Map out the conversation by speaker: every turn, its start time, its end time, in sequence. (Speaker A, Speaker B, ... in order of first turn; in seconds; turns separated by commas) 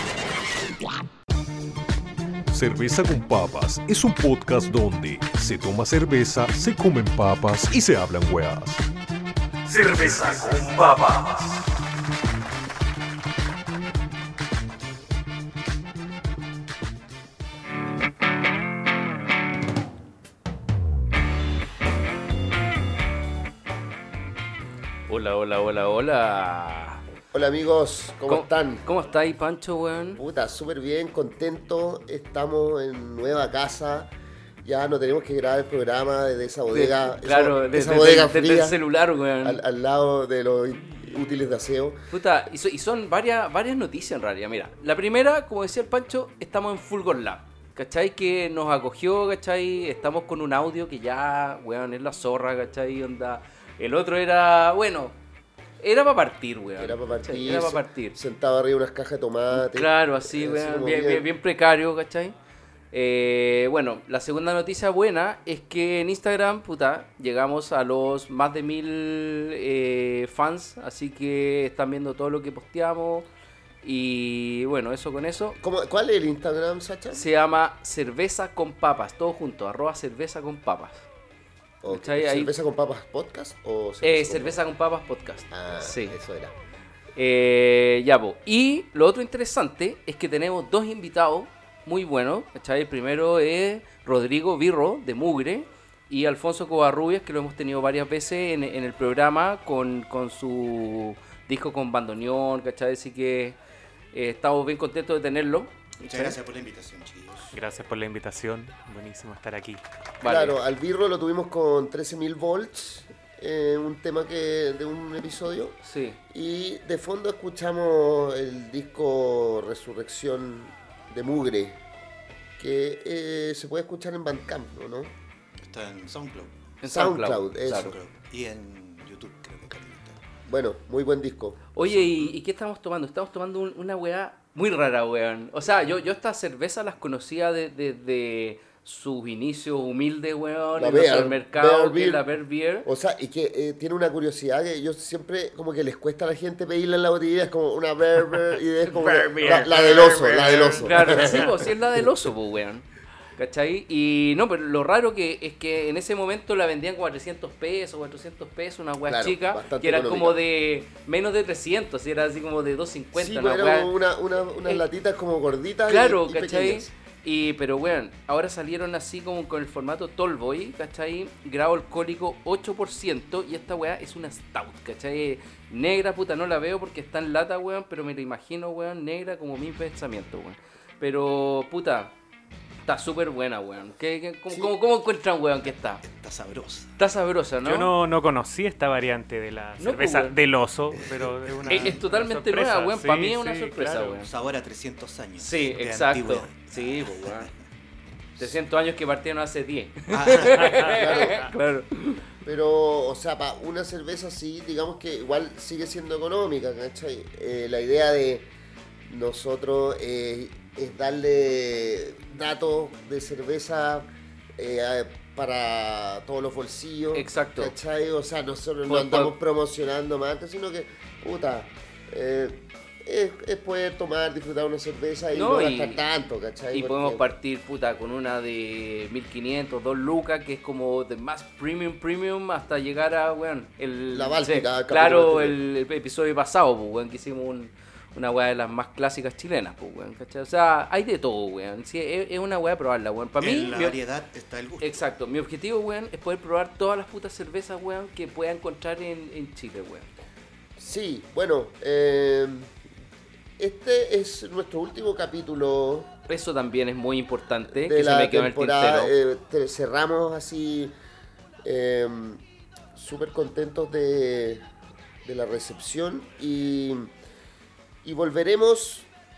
Speaker A: 2.5-8.8, Speaker A: 9.7-11.7, Speaker B: 25.1-27.0, Speaker C: 27.3-28.9, Speaker B: 28.3-30.2, Speaker C: 30.2-34.1, Speaker C: 34.6-38.8, Speaker B: 36.7-39.6, Speaker C: 39.4-42.0, Speaker B: 42.1-55.1, Speaker B: 55.8-58.2, Speaker C: 56.8-61.3, Speaker B: 59.5-62.3, Speaker B: 62.9-73.3, Speaker B: 73.8-75.6, Speaker C: 75.6-77.3, Speaker B: 77.1-81.0, Speaker C: 81.8-84.6, Speaker B: 81.9-82.5, Speaker B: 84.0-86.2, Speaker C: 85.5-86.5, Speaker B: 87.2-103.6, Speaker B: 104.1-106.4, Speaker D: 106.0-107.5, Speaker E: 107.5-109.8, Speaker B: 110.2-110.6, Speaker C: 110.2-115.8, Speaker B: 115.8-116.2, Speaker C: 116.3-121.8, Speaker C: 122.6-125.1, Speaker D: 125.6-126.5, Speaker B: 126.8-127.9, Speaker C: 126.9-127.9, Speaker D: 127.7-130.2, Speaker C: 130.5-131.6, Speaker B: 131.7-142.9, Speaker C: 140.8-142.2, Speaker C: 142.8-152.0, Speaker E: 148.9-151.5, Speaker B: 150.8-163.9, Speaker C: 159.1-160.4, Speaker C: 163.1-166.9, Speaker B: 165.9-182.1, Speaker B: 182.8-186.0, Speaker D: 186.0-186.9, Speaker B: 187.0-187.9, Speaker E: 187.6-194.2, Speaker B: 189.8-190.3, Speaker D: 191.6-192.0, Speaker B: 191.7-194.3, Speaker D: 194.2-197.5, Speaker B: 195.4-197.5, Speaker B: 198.4-202.2, Speaker D: 200.1-200.8, Speaker E: 200.4-201.5, Speaker C: 200.9-201.4, Speaker C: 202.4-208.5, Speaker C: 209.1-227.3, Speaker B: 217.1-217.7, Speaker B: 218.9-219.3, Speaker B: 225.3-226.0, Speaker B: 226.7-244.0, Speaker C: 234.1-235.6, Speaker D: 243.4-245.0, Speaker B: 244.8-250.1, Speaker C: 250.8-252.7, Speaker C: 253.6-256.1, Speaker B: 256.3-259.1, Speaker C: 257.7-260.9, Speaker C: 261.6-262.4, Speaker C: 262.9-264.6, Speaker C: 265.2-267.1, Speaker C: 268.0-269.1